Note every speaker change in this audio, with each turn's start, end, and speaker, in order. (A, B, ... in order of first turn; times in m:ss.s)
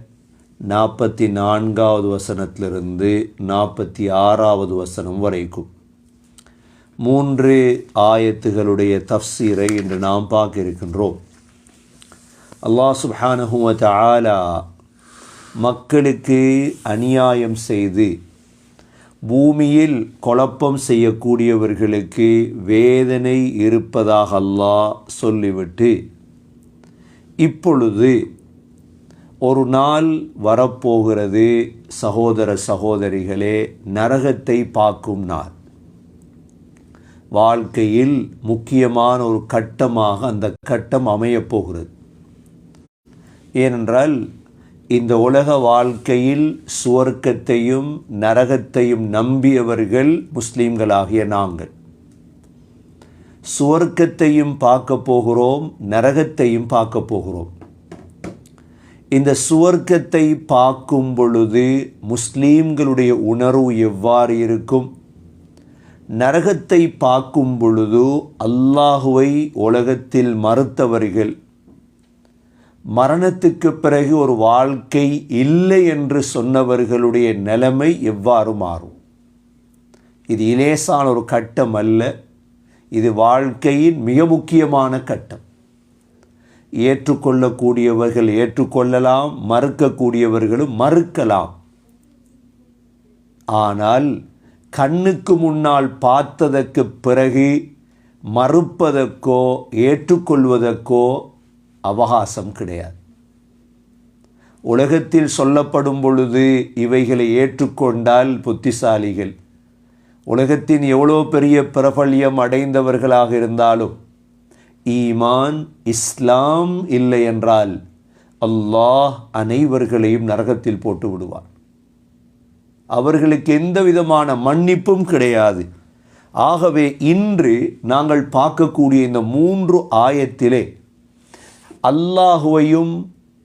0:00.7-0:05.7 A
0:07.0-0:11.2 A
0:12.6-0:14.6 A
0:15.6-0:18.1 A
0:19.3-0:25.9 A
0:27.4-0:28.2 A
0:29.4-0:35.5 A
0:37.4-0:41.9 A
0:43.6-0:44.2 A
0:45.0-0:51.7 A
0:53.5-0:57.5 A
0:59.1-1:04.9 A
1:06.2-1:11.3 A
1:13.0-1:19.0 A
1:20.3-1:22.1 A
1:22.9-1:25.4 A
1:26.8-1:31.5 A
1:33.6-1:34.1 A
1:34.7-1:37.6 A
1:38.3-1:41.2 A
1:41.9-1:43.0 A
1:44.7-1:49.3 A
1:50.3-1:54.0 A
1:54.9-1:57.8 A
1:58.4-2:01.5 A
2:02.9-2:05.6 A
2:06.4-2:10.7 A
2:11.9-2:12.9 A